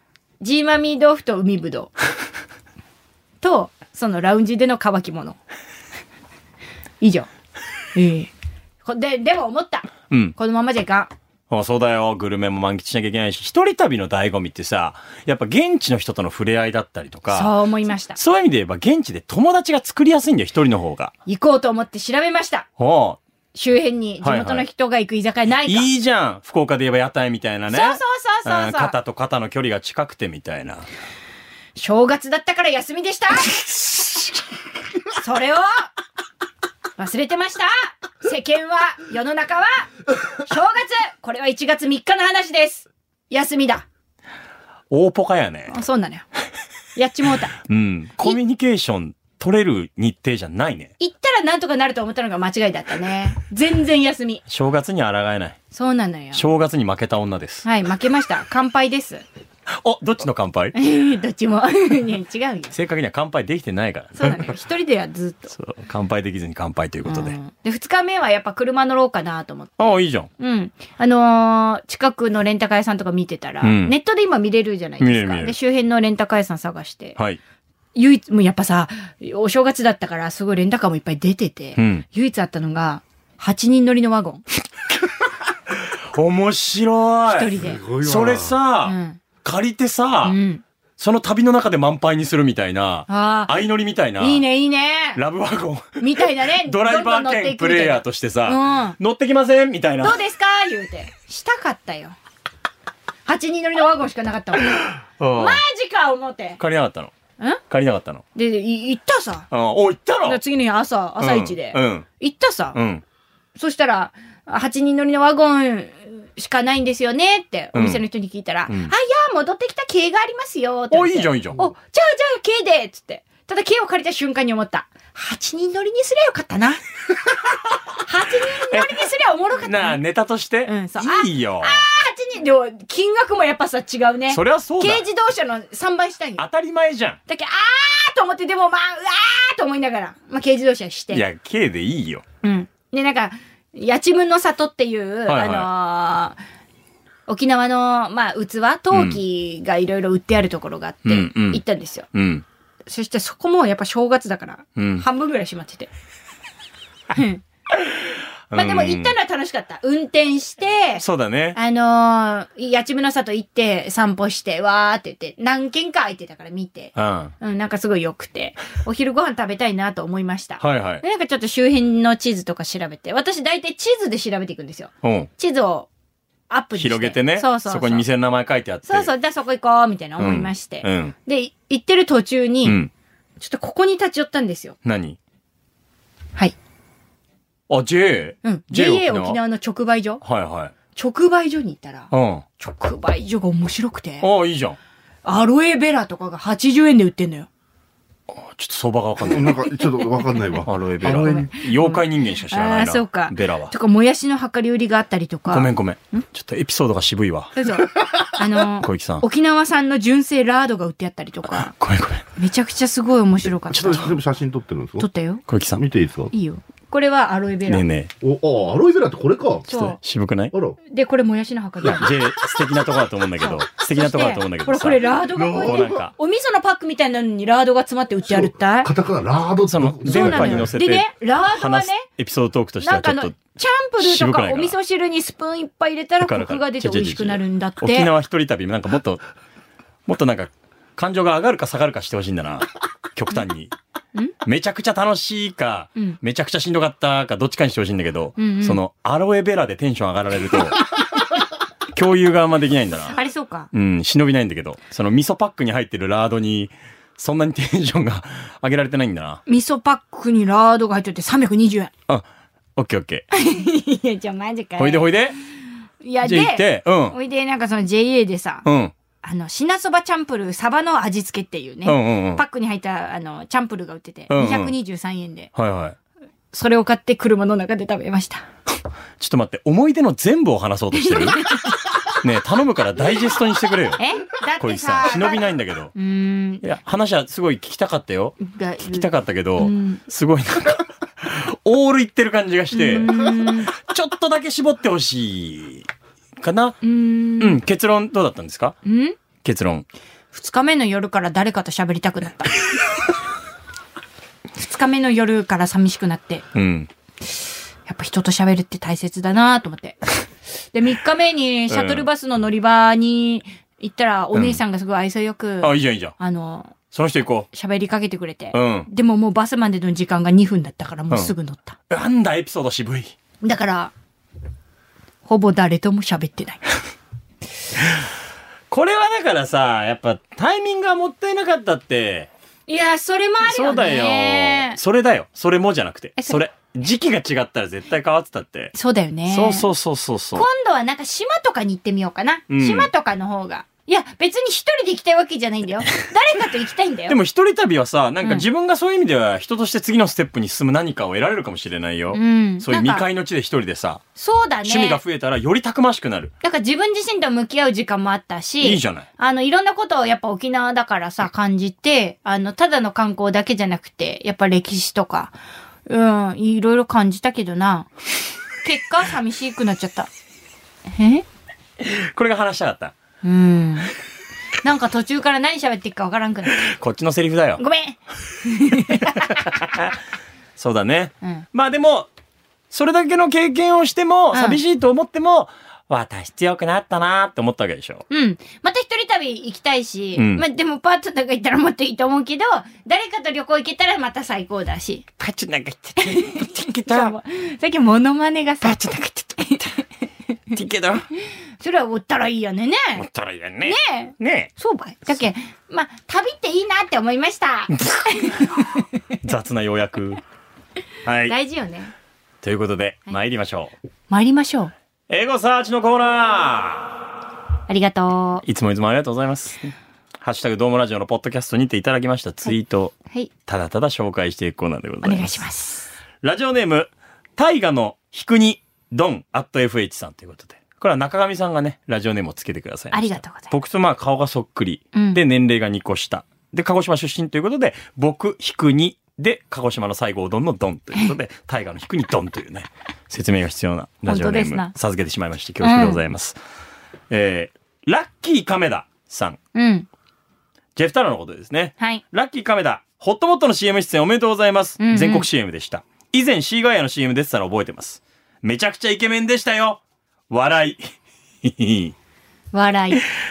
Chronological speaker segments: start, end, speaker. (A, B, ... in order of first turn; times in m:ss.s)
0:00.4-0:01.9 A
0:03.4-0:05.4 A
0:07.0-0:07.3 A
0:08.0-0:08.3 A
0:08.8-0:11.1 A
0:10.1-0:10.4 B
0:11.5-0:17.6 B
0:17.3-0:18.2 A
0:18.2-0:21.1 B
0:21.3-0:22.7 A
0:22.8-0:23.2 B
0:23.5-0:25.9 A
0:24.2-0:24.6 B
0:25.7-0:30.9 B
0:27.7-0:29.0 A
0:31.8-0:33.5 A
0:33.5-0:34.4 B
0:35.2-0:35.9 A
0:37.0-0:39.9 A
0:40.4-0:43.9 A
0:44.9-0:45.8 B
0:45.7-0:46.2 A
0:47.0-0:47.6 A
0:47.7-0:50.9 B
0:51.0-0:54.4 A
0:54.5-0:55.6 B
0:55.7-0:56.5 A
0:56.3-0:57.7 B
0:57.6-0:59.2 A
0:59.7-1:00.8 B
1:00.8-1:02.7 A
1:02.7-1:04.5 B
1:04.2-1:05.5 A
1:05.5-1:07.4 B
1:07.0-1:17.2 A
1:09.8-1:10.3 B
1:13.6-1:14.0 B
1:15.0-1:15.6 B
1:18.0-1:24.4 A
1:21.8-1:22.0 B
1:25.7-1:30.4 B
1:27.3-1:27.8 A
1:27.6-1:28.6 C
1:28.8-1:29.2 A
1:30.2-1:30.6 A
1:31.0-1:34.4 B
1:33.1-1:33.6 A
1:34.2-1:35.2 A
1:35.2-1:40.2 B
1:36.0-1:39.0 A
1:40.0-1:42.2 A
1:43.3-1:46.6 A
1:45.2-1:45.6 B
1:46.6-1:47.1 B
1:47.7-1:48.2 B
1:48.4-1:49.5 A
1:49.5-1:50.4 B
1:50.2-1:52.8 A
1:51.2-1:52.1 B
1:52.7-1:53.0 B
1:53.6-2:06.8 A
1:57.8-1:58.0 B
1:58.7-1:58.9 B
2:00.9-2:01.6 B
2:08.0-2:10.0 A
2:08.7-2:09.0 B
2:09.6-2:11.8 B
2:10.7-2:16.4 A
2:14.3-2:15.0 B
2:16.4-2:17.2 B
2:17.3-2:21.2 A
2:21.1-2:22.2 B
2:22.4-2:26.4 A
2:25.3-2:25.7 B
2:27.3-2:32.1 A
2:28.9-2:29.2 B
2:31.1-2:32.4 B
2:32.9-2:35.9 A
2:34.8-2:35.1 B
2:37.1-2:37.4 A
2:38.5-2:39.1 B
2:38.5-2:41.0 A
2:41.0-2:41.6 B
2:41.6-2:55.9 A
2:47.0-2:47.3 B
2:50.6-2:51.0 B
2:55.0-2:55.3 B
2:56.5-2:58.0 A
2:56.8-2:59.1 B
2:58.9-3:02.8 A
3:00.2-3:01.2 B
3:02.6-3:02.9 B
3:03.4-3:04.8 A
3:04.8-3:05.2 B
3:07.7-3:09.4 B
3:08.4-3:10.2 A
3:10.2-3:10.7 B
3:11.0-3:14.3 A
3:12.1-3:12.4 B
3:14.2-3:14.8 B
3:15.2-3:17.5 A
3:18.3-3:19.6 B
3:19.2-3:21.4 C
3:20.6-3:23.7 B
3:21.0-3:26.2 A
3:25.5-3:27.6 B
3:27.6-3:31.7 A
3:28.8-3:29.2 B
3:31.5-3:32.2 B
3:32.4-3:34.1 A
3:33.7-3:35.1 C
3:35.0-3:35.4 A
3:35.5-3:35.8 B
3:35.8-3:36.3 C
3:36.3-3:37.8 A
3:37.7-3:38.1 B
3:38.2-3:39.7 C
3:39.7-3:40.0 A
3:39.7-3:40.5 B
3:40.5-3:40.8 C
3:40.9-3:42.1 A
3:41.8-3:46.1 B
3:43.4-3:48.9 A
3:45.4-3:46.0 C
3:48.3-3:50.7 C
3:49.6-3:54.8 B
3:50.1-3:52.1 A
3:52.8-3:58.1 A
3:56.2-3:59.2 B
4:00.1-4:03.7 B
4:04.4-4:10.9 B
4:08.4-4:08.8 A
4:11.9-4:13.2 B
4:13.1-4:13.7 A
4:13.7-4:19.4 B
4:19.5-4:21.9 A
4:22.8-4:23.2 B
4:23.3-4:25.2 A
4:24.8-4:25.4 B
4:26.0-4:28.6 A
4:26.2-4:27.2 B
4:28.6-4:28.9 B
4:29.2-4:35.5 A
4:31.8-4:32.4 B
4:34.3-4:34.8 B
4:35.6-4:36.0 B
4:36.5-4:38.4 A
4:39.2-4:41.5 B
4:41.0-4:41.8 A
4:42.1-4:46.0 B
4:44.0-4:46.6 A
4:46.6-4:55.9 B
4:48.4-4:50.0 A
4:52.7-4:53.7 A
4:56.4-4:56.8 B
4:56.8-4:57.6 A
4:57.4-4:58.8 B
4:58.8-4:59.2 A
4:59.4-4:59.9 B
5:00.3-5:02.7 A
5:04.6-5:06.4 A
5:06.5-5:06.9 B
5:07.9-5:16.8 A
5:11.7-5:12.1 B
5:14.3-5:14.6 B
5:15.6-5:16.1 B
5:16.9-5:17.5 B
5:17.5-5:21.8 A
5:18.5-5:18.9 B
5:21.9-5:23.2 B
5:23.4-5:23.9 A
5:25.2-5:26.7 A
5:28.7-5:32.3 B
5:32.7-5:34.8 A
5:33.4-5:38.7 B
5:38.7-5:39.7 A
5:39.3-5:40.5 B
5:40.4-5:47.2 A
5:42.5-5:42.9 B
5:47.1-5:54.0 B
5:52.1-5:53.0 A
5:54.2-5:55.0 A
5:54.6-5:56.3 B
5:56.4-6:07.9 A
5:58.6-5:59.1 B
6:08.6-6:10.1 A
6:10.9-6:11.2 A
6:11.8-6:12.9 B
6:13.2-6:13.9 A
6:14.6-6:16.7 A
6:16.6-6:17.6 B
6:17.6-6:19.6 A
6:18.8-6:20.0 B
6:20.6-6:22.1 B
6:22.7-6:28.0 B
6:24.3-6:24.6 A
6:28.1-6:35.1 A
6:30.2-6:30.4 B
6:35.2-6:37.2 B
6:36.0-6:39.8 A
6:38.6-6:39.0 B
6:40.5-6:41.1 B
6:41.6-6:43.1 A
6:43.0-6:44.5 B
6:43.6-6:48.8 A
6:47.7-6:48.7 B
6:49.2-6:50.2 B
6:51.0-6:51.4 B
6:51.3-6:51.9 A
6:52.4-6:53.7 B
6:54.1-6:54.7 A
6:55.1-6:57.1 B
6:57.7-6:58.4 A
6:58.4-7:05.5 B
7:05.0-7:05.9 A
7:06.2-7:26.4 B
7:12.9-7:13.5 A
7:14.9-7:15.2 A
7:24.1-7:24.7 A
7:25.6-7:26.0 A
7:27.1-7:29.4 B
7:29.6-7:29.9 A
7:30.8-7:40.8 B
7:34.8-7:35.3 A
7:41.4-7:41.9 B
7:42.5-7:43.0 A